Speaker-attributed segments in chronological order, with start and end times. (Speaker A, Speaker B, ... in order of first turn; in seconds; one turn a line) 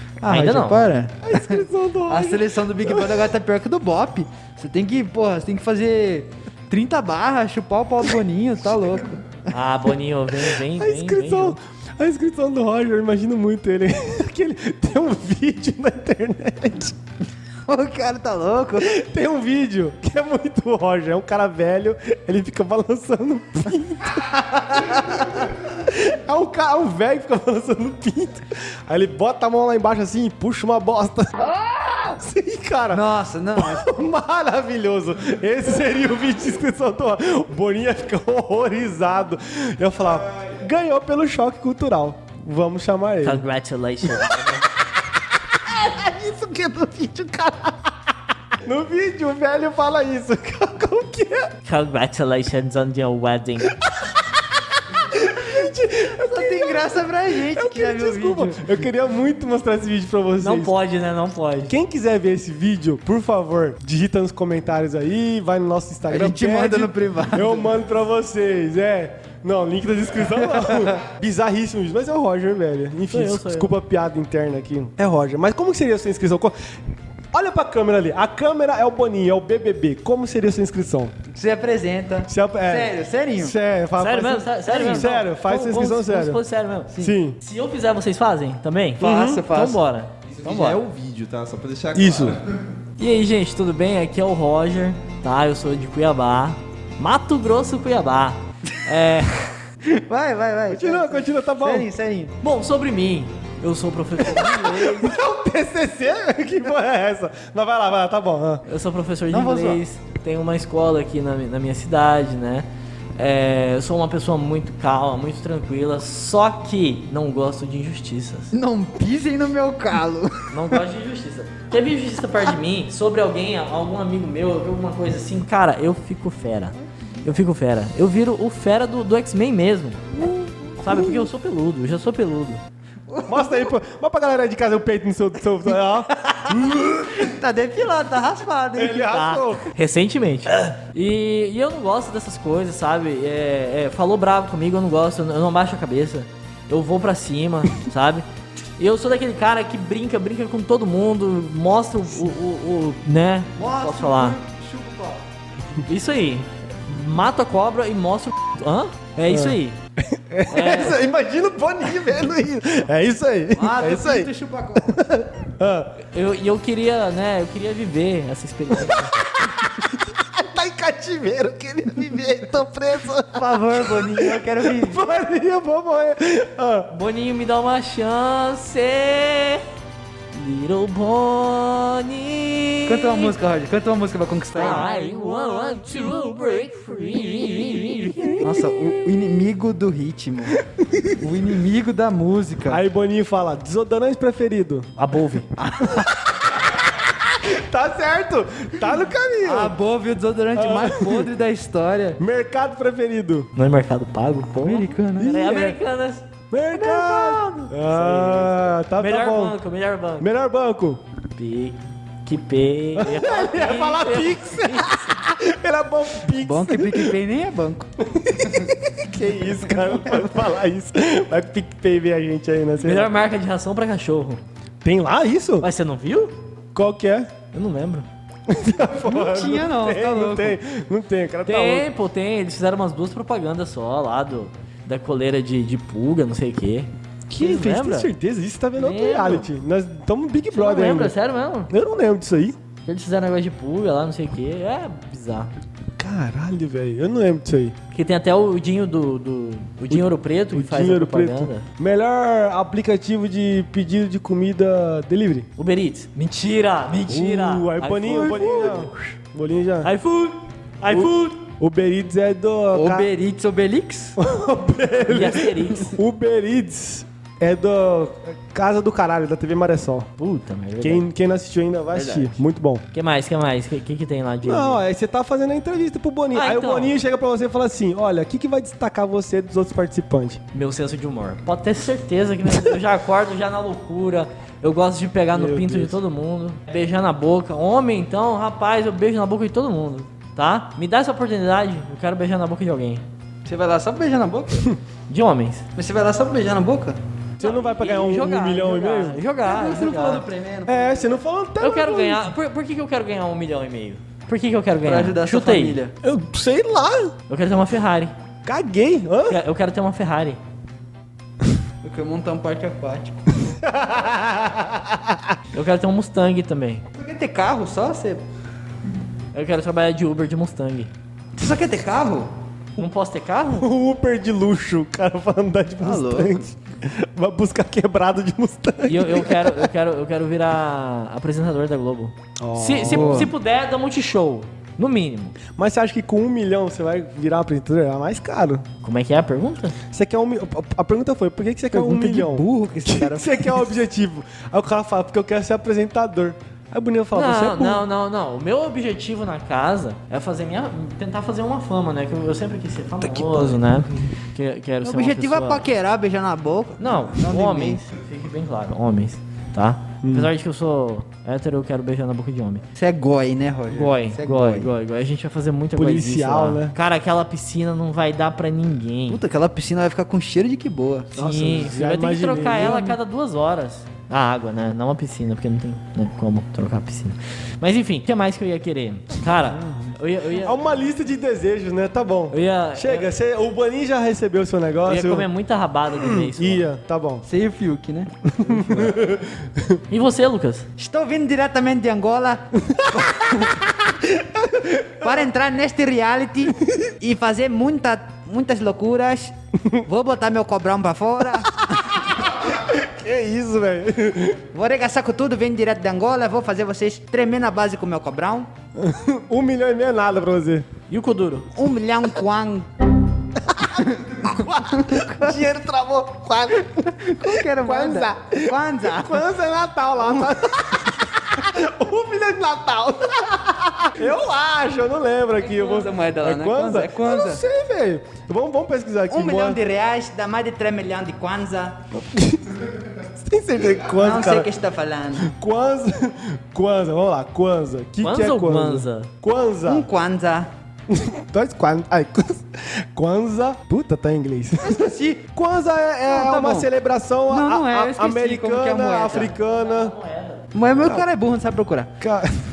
Speaker A: 0.2-9.4
Speaker B: 0.2-0.8
Speaker C: 1.2-3.3
Speaker B: 9.5-11.6
Speaker C: 10.6-17.0
Speaker A: 17.7-19.0
Speaker C: 18.8-31.3
Speaker C: 32.1-43.4
Speaker A: 32.9-33.9
Speaker B: 43.2-44.7
Speaker C: 44.0-47.9
Speaker C: 48.6-51.5
Speaker B: 51.6-53.8
Speaker C: 53.8-60.7
Speaker A: 56.2-58.7
Speaker B: 60.4-61.7
Speaker C: 61.7-76.5
Speaker A: 66.1-67.7
Speaker B: 73.1-73.7
Speaker C: 77.3-81.1
Speaker A: 81.3-83.5
Speaker C: 82.3-86.4
Speaker B: 84.0-90.8
Speaker A: 84.7-85.1
Speaker C: 87.0-87.4
Speaker C: 89.0-89.4
Speaker A: 89.0-89.8
Speaker D: 90.3-92.5
Speaker C: 91.9-92.4
Speaker B: 93.0-99.6
Speaker A: 99.8-102.3
Speaker C: 100.7-101.9
Speaker B: 102.4-105.2
Speaker C: 104.2-108.6
Speaker B: 108.7-118.5
Speaker A: 109.3-109.8
Speaker A: 118.5-120.8
Speaker B: 120.5-130.1
Speaker B: 130.8-132.6
Speaker C: 130.8-131.2
Speaker A: 133.1-133.7
Speaker C: 133.2-137.3
Speaker A: 137.1-139.1
Speaker C: 138.8-139.7
Speaker B: 139.1-148.2
Speaker B: 148.8-154.4
Speaker A: 153.6-155.2
Speaker B: 155.8-159.8
Speaker C: 159.3-164.3
Speaker B: 160.5-161.0
Speaker A: 163.5-165.0
Speaker C: 164.8-166.0
Speaker B: 166.1-169.1
Speaker C: 168.7-176.9
Speaker A: 173.3-175.0
Speaker B: 176.9-179.6
Speaker B: 180.3-183.3
Speaker A: 182.8-184.9
Speaker B: 184.6-188.6
Speaker C: 188.2-188.5
Speaker A: 188.4-192.8
Speaker C: 192.7-194.9
Speaker B: 195.0-195.5
Speaker A: 195.6-196.2
Speaker C: 196.6-199.7
Speaker A: 199.4-202.2
Speaker C: 200.6-201.3
Speaker C: 202.2-203.5
Speaker B: 203.5-210.3
Speaker A: 204.6-205.6
Speaker C: 205.2-205.8
Speaker C: 206.5-209.6
Speaker C: 210.2-211.0
Speaker B: 211.3-215.2
Speaker C: 212.9-217.1
Speaker A: 216.4-217.9
Speaker C: 218.0-223.1
Speaker A: 219.7-220.2
Speaker B: 222.8-224.4
Speaker C: 224.8-225.7
Speaker B: 225.6-226.3
Speaker C: 226.7-227.3
Speaker B: 227.5-228.1
Speaker C: 228.5-231.9
Speaker A: 229.0-230.6
Speaker B: 231.4-238.1
Speaker C: 237.3-241.1
Speaker B: 238.8-239.5
Speaker B: 240.5-241.7
Speaker C: 241.7-242.6
Speaker B: 242.8-245.5
Speaker C: 246.0-247.8
Speaker B: 247.9-251.7
Speaker C: 249.9-255.5
Speaker B: 255.6-258.9
Speaker C: 257.1-259.9
Speaker B: 259.8-261.4
Speaker C: 260.8-263.1
Speaker A: 262.7-264.2
Speaker C: 264.2-270.1
Speaker B: 265.1-265.9
Speaker B: 270.2-271.1
Speaker C: 270.8-272.8
Speaker A: 271.9-272.3
Speaker B: 272.9-274.8
Speaker C: 274.4-280.4
Speaker B: 276.3-276.9
Speaker B: 280.5-293.0
Speaker C: 285.3-286.0
Speaker A: 293.4-294.7
Speaker B: 295.1-295.6
Speaker A: 295.8-297.0
Speaker C: 297.4-299.2
Speaker B: 297.4-300.2
Speaker A: 299.4-301.2
Speaker C: 300.6-302.3
Speaker B: 301.6-305.8
Speaker A: 304.8-305.9
Speaker C: 306.0-307.1
Speaker B: 307.3-308.1
Speaker C: 308.4-309.4
Speaker B: 309.3-310.4
Speaker A: 311.8-313.3
Speaker C: 313.4-315.4
Speaker B: 315.5-316.8
Speaker A: 316.9-318.2
Speaker B: 319.3-320.9
Speaker A: 321.4-322.3
Speaker B: 322.8-323.7
Speaker C: 323.6-329.7
Speaker A: 325.8-326.4
Speaker B: 328.8-335.4
Speaker C: 332.4-333.3
Speaker A: 332.8-333.3
Speaker C: 335.5-338.6
Speaker B: 338.8-339.8
Speaker C: 339.9-347.9
Speaker A: 341.7-343.7
Speaker B: 347.1-355.7
Speaker A: 353.2-353.5
Speaker A: 354.8-357.8
Speaker B: 356.8-362.6
Speaker C: 360.0-360.3
Speaker A: 362.7-364.7
Speaker B: 363.7-369.2
Speaker C: 365.8-366.7
Speaker A: 369.1-371.1
Speaker C: 371.1-373.0
Speaker B: 371.1-380.6
Speaker C: 380.4-385.3
Speaker B: 382.3-383.1
Speaker B: 384.9-386.7
Speaker C: 385.9-387.2
Speaker A: 387.2-388.9
Speaker C: 388.4-389.8
Speaker B: 389.9-390.7
Speaker A: 390.8-394.0
Speaker C: 392.7-395.1
Speaker A: 395.0-402.0
Speaker C: 401.5-404.4
Speaker A: 404.5-408.5
Speaker C: 408.8-410.7
Speaker B: 410.9-411.5
Speaker A: 411.5-412.7
Speaker C: 413.5-429.6
Speaker A: 413.6-415.4
Speaker A: 416.9-419.2
Speaker A: 420.0-420.6
Speaker A: 425.4-427.4
Speaker A: 429.1-431.8
Speaker C: 431.9-434.5
Speaker A: 433.9-435.3
Speaker C: 435.2-439.9
Speaker B: 438.0-439.1
Speaker A: 439.6-440.5
Speaker C: 440.9-449.9
Speaker A: 444.6-445.3
Speaker A: 446.1-446.7
Speaker A: 447.3-449.3
Speaker B: 449.2-450.5
Speaker A: 450.5-451.9
Speaker C: 452.0-452.4